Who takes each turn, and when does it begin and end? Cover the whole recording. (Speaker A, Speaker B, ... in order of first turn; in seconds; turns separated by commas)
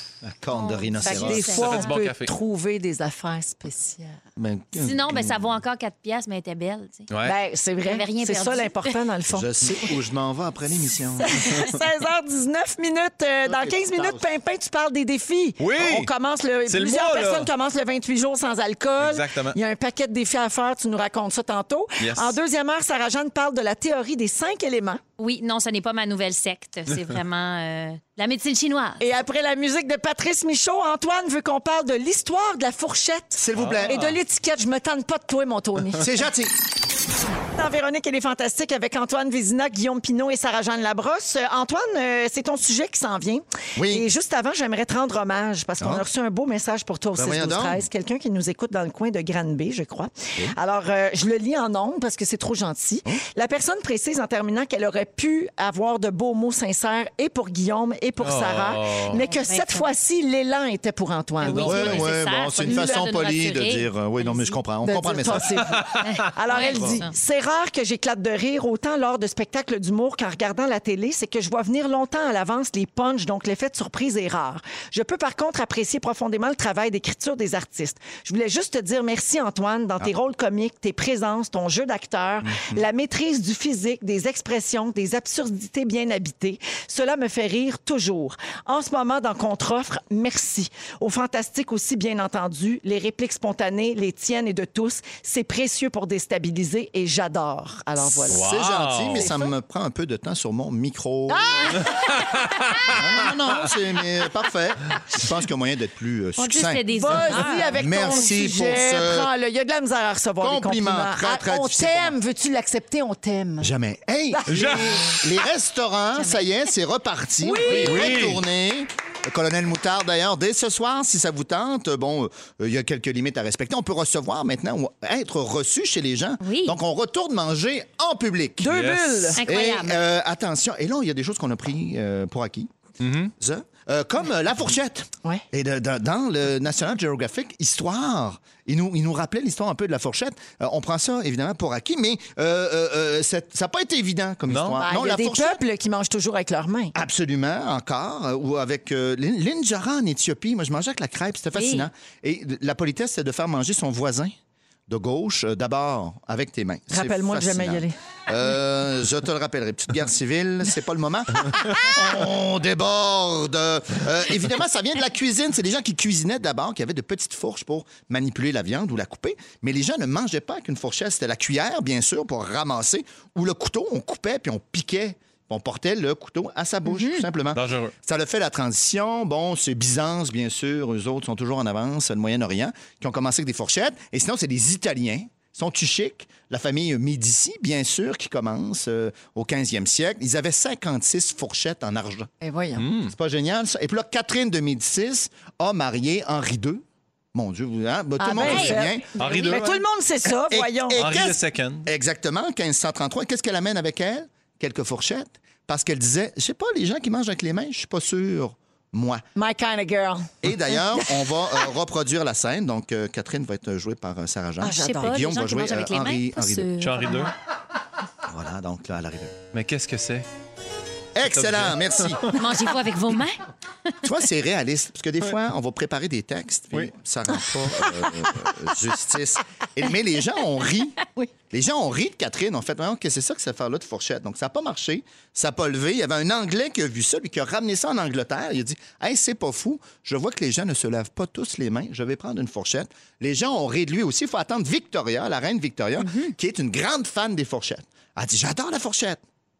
Speaker A: 0.2-1.7, Speaker B: 0.5-2.0, Speaker C: 1.0-4.2, Speaker D: 1.4-2.3, Speaker A: 4.4-5.6, Speaker B: 4.7-7.1, Speaker D: 7.1-7.3, Speaker C: 7.2-9.5, Speaker B: 7.9-8.8, Speaker A: 9.3-11.6, Speaker C: 11.2-25.0, Speaker A: 13.5-14.3, Speaker D: 15.6-16.1, Speaker D: 16.7-17.5, Speaker D: 19.0-19.6, Speaker D: 22.0-22.4, Speaker B: 25.2-29.0, Speaker C: 29.0-36.1, Speaker A: 33.4-34.1, Speaker D: 33.6-34.2, Speaker A: 36.0-36.5, Speaker C: 37.6-61.9, Speaker A: 43.8-44.1, Speaker A: 45.8-46.0, Speaker A: 47.2-47.9, Speaker D: 58.2-59.2, Speaker B: 59.1-59.9, Speaker B: 61.4-64.6, Speaker D: 61.5-62.1, Speaker A: 61.6-65.7, Speaker C: 62.6-63.0, Speaker C: 64.8-98.4, Speaker D: 65.7-66.1, Speaker B: 66.0-67.1, Speaker A: 66.6-67.0, Speaker A: 82.5-82.8, Speaker D: 98.3-99.3, Speaker A: 98.3-101.9, Speaker C: 99.2-99.5, Speaker C: 101.3-102.4, Speaker D: 102.0-103.0, Speaker A: 102.9-109.3, Speaker B: 106.4-108.1, Speaker C: 106.9-113.7, Speaker A: 110.4-112.2, Speaker A: 113.6-128.8, Speaker C: 114.3-115.1, Speaker D: 114.5-115.2, Speaker B: 116.2-116.4, Speaker C: 117.4-118.3, Speaker D: 117.7-118.4, Speaker B: 126.4-126.8, Speaker C: 128.6-129.4, Speaker D: 128.7-129.4, Speaker B: 129.4-130.0, Speaker A: 129.4-132.7, Speaker D: 133.0-133.3, Speaker A: 133.4-145.6, Speaker D: 144.5-144.8, Speaker C: 144.8-146.9, Speaker A: 146.9-154.3, Speaker B: 151.6-151.8, Speaker A: 154.9-192.3, Speaker C: 156.9-157.9, Speaker D: 177.5-177.9, Speaker C: 192.4-192.8, Speaker D: 192.8-193.1, Speaker A: 193.0-196.8, Speaker A: 197.3-199.5, Speaker C: 198.2-201.0, Speaker D: 198.4-199.8, Speaker A: 200.3-209.2, Speaker D: 200.9-201.9, Speaker C: 209.4-211.3, Speaker A: 210.4-216.7, Speaker C: 214.6-215.2, Speaker B: 214.7-217.3, Speaker D: 216.8-217.3, Speaker A: 218.2-219.4, Speaker D: 219.5-220.2, Speaker A: 221.2-222.4, Speaker D: 221.3-222.4, Speaker B: 222.3-223.9, Speaker A: 224.0-231.0, Speaker A: 231.5-249.2, Speaker B: 246.0-246.3